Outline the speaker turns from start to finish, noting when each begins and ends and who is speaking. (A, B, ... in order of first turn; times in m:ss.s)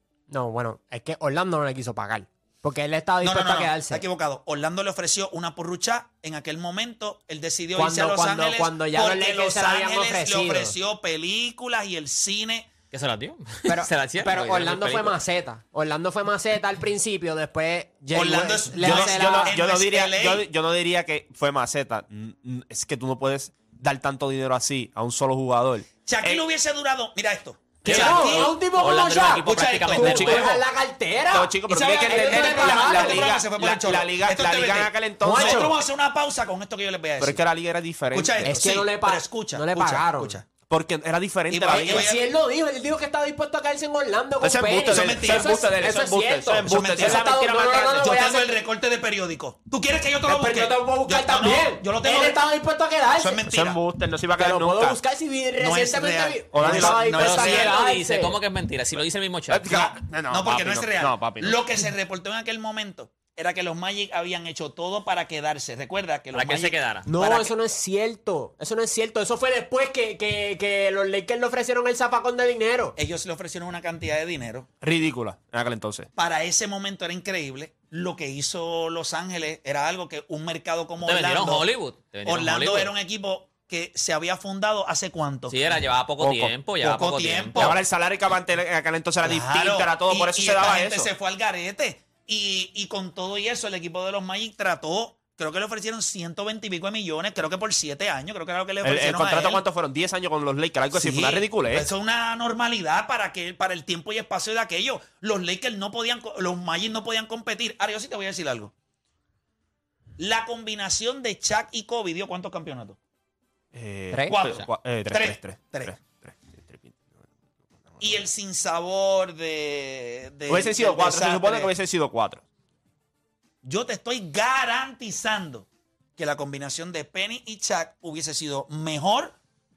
0:00.3-0:04.0 A
0:03.2-0:12.7 B
0:07.8-0:10.7 A
0:12.9-0:15.1 C
0:13.7-0:19.6 A
0:18.1-0:20.5 B
0:18.8-0:26.4 D
0:26.0-0:28.6 B
0:27.8-0:33.4 A
0:27.8-0:30.4 C
0:29.4-0:30.6 B
0:29.9-0:30.4 D
0:31.3-0:35.8 D
0:31.7-0:37.4 B
0:35.2-0:35.7 A
0:37.2-0:38.7 D
0:38.1-0:40.5 B
0:38.4-0:40.4 A
0:40.7-0:42.1 D
0:41.5-0:42.3 B
0:41.7-0:48.6 A
0:44.4-0:48.0 D
0:44.9-0:45.6 B
0:46.6-0:47.3 B
0:48.0-0:52.4 B
0:50.3-0:53.4 A
0:53.2-0:53.8 B
0:53.5-0:55.0 D
0:54.4-0:58.4 A
0:55.6-0:57.7 B
0:56.5-0:57.2 D
0:57.1-0:59.8 C
0:59.5-1:01.6 D
0:59.7-1:07.5 B
1:06.3-1:07.1 C
1:07.1-1:13.0 A
1:13.0-1:14.7 B
1:14.8-1:16.1 D
1:16.2-1:21.6 B
1:21.0-1:22.9 C
1:22.3-1:25.6 B
1:25.5-1:27.8 C
1:26.8-1:27.8 B
1:27.6-1:31.1 D
1:29.2-1:39.6 B
1:38.8-1:41.9 D
1:40.9-1:48.7 B
1:50.2-1:53.0 B
1:53.7-1:57.3 D
1:54.1-1:54.4 A
1:54.3-1:56.0 B
1:57.8-1:58.2 D
1:58.0-2:01.7 B
2:00.5-2:02.4 D
2:03.6-2:09.4 B